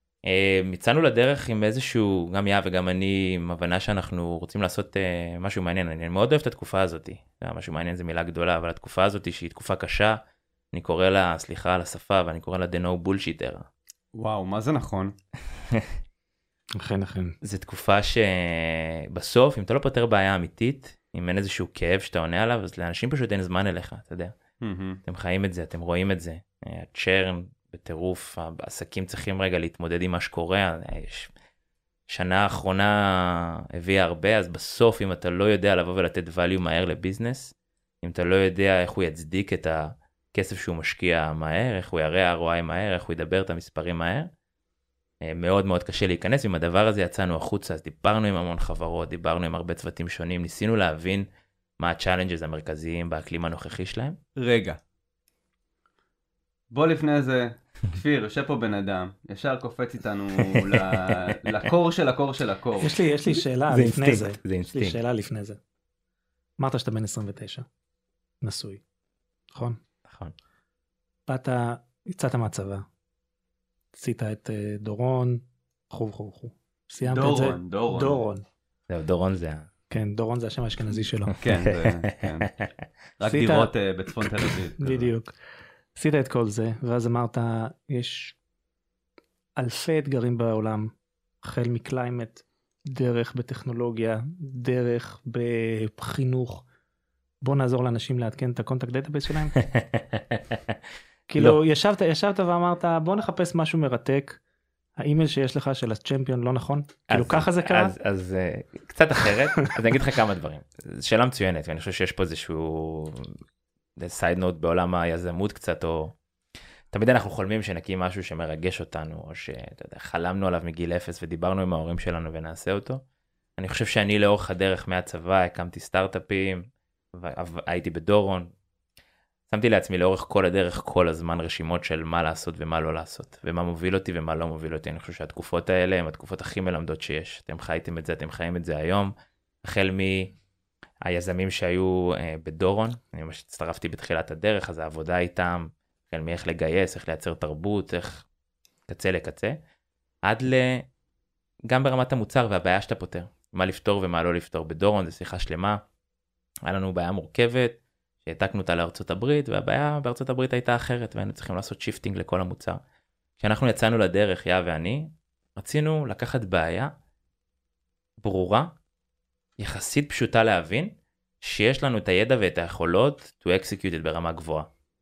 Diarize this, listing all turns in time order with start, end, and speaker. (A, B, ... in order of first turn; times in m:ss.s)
0:00.2-0:10.2 A
0:10.7-0:13.7 A
0:14.1-0:15.1 B
0:16.8-0:17.4 C
0:17.4-0:24.4 A
0:24.6-0:25.0 B
0:25.1-0:31.3 A
0:32.1-0:44.3 A
0:45.2-0:51.3 A
0:51.8-0:54.2 A
0:54.4-0:54.8 B
0:56.7-1:02.9 B
1:00.5-1:01.5 A
1:02.8-1:05.6 C
1:03.7-1:05.0 A
1:06.6-1:07.6 C
1:08.4-1:08.8 C
1:09.5-1:09.8 C
1:10.0-1:10.3 A
1:11.3-1:12.8 C
1:13.9-1:18.4 C
1:17.0-1:18.2 B
1:18.9-1:19.7 A
1:19.9-1:21.4 C
1:21.4-1:22.5 B
1:21.5-1:22.7 A
1:23.2-1:25.1 B
1:23.3-1:23.7 C
1:24.8-1:25.3 C
1:25.9-1:28.4 C
1:29.6-1:36.6 C
1:37.4-1:39.6 C
1:39.6-1:40.7 A
1:41.3-1:44.4 C
1:45.0-1:48.0 C
1:47.1-1:53.4 A
1:54.0-1:56.2 A
1:56.9-2:03.0 A
2:03.6-2:08.5 A
2:09.5-2:19.1 A
2:19.6-2:20.3 A
2:21.0-2:28.2 A
2:28.9-2:29.6 A
2:30.2-2:30.9 A
2:31.7-2:35.8 A
2:36.6-2:42.8 A
2:43.4-2:46.9 A
2:48.2-2:48.7 A
2:49.6-2:54.7 A